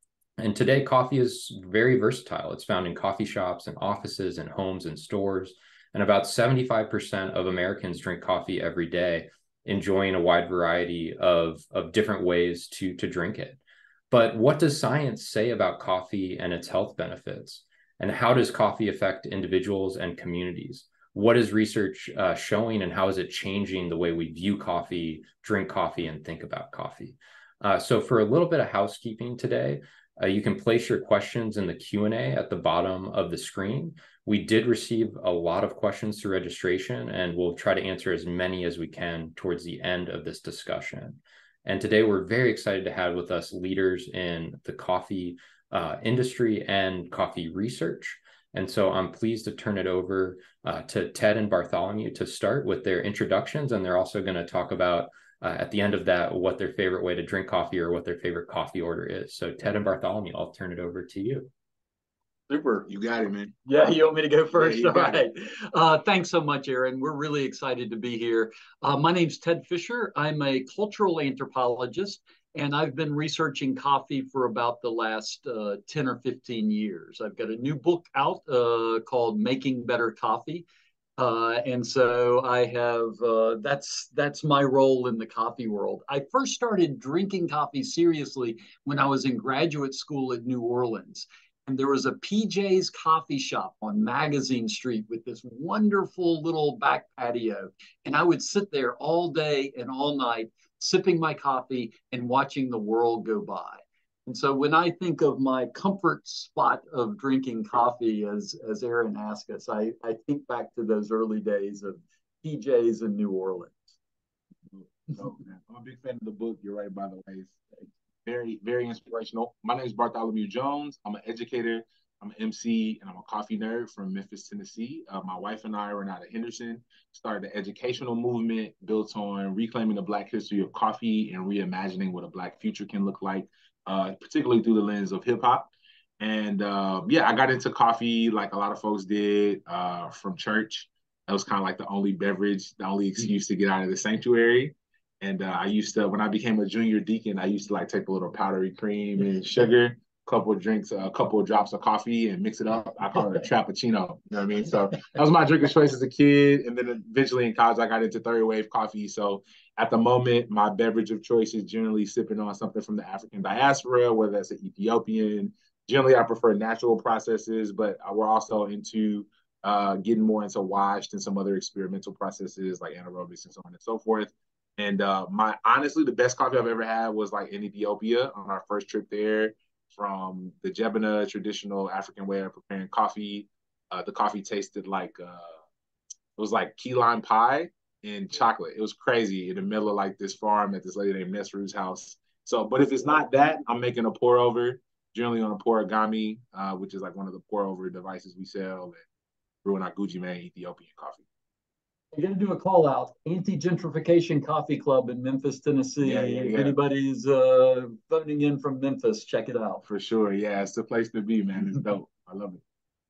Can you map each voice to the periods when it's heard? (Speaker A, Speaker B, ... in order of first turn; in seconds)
Speaker A: 0.4-13.6, 14.1-61.5
Speaker B: 62.5-62.9, 63.6-80.6, 81.2-113.9, 202.1-209.8
Speaker C: 62.9-63.5, 64.5-65.2, 114.7-117.7, 118.2-185.6, 186.4-199.0, 199.6-201.2, 206.0-206.8, 209.8-212.6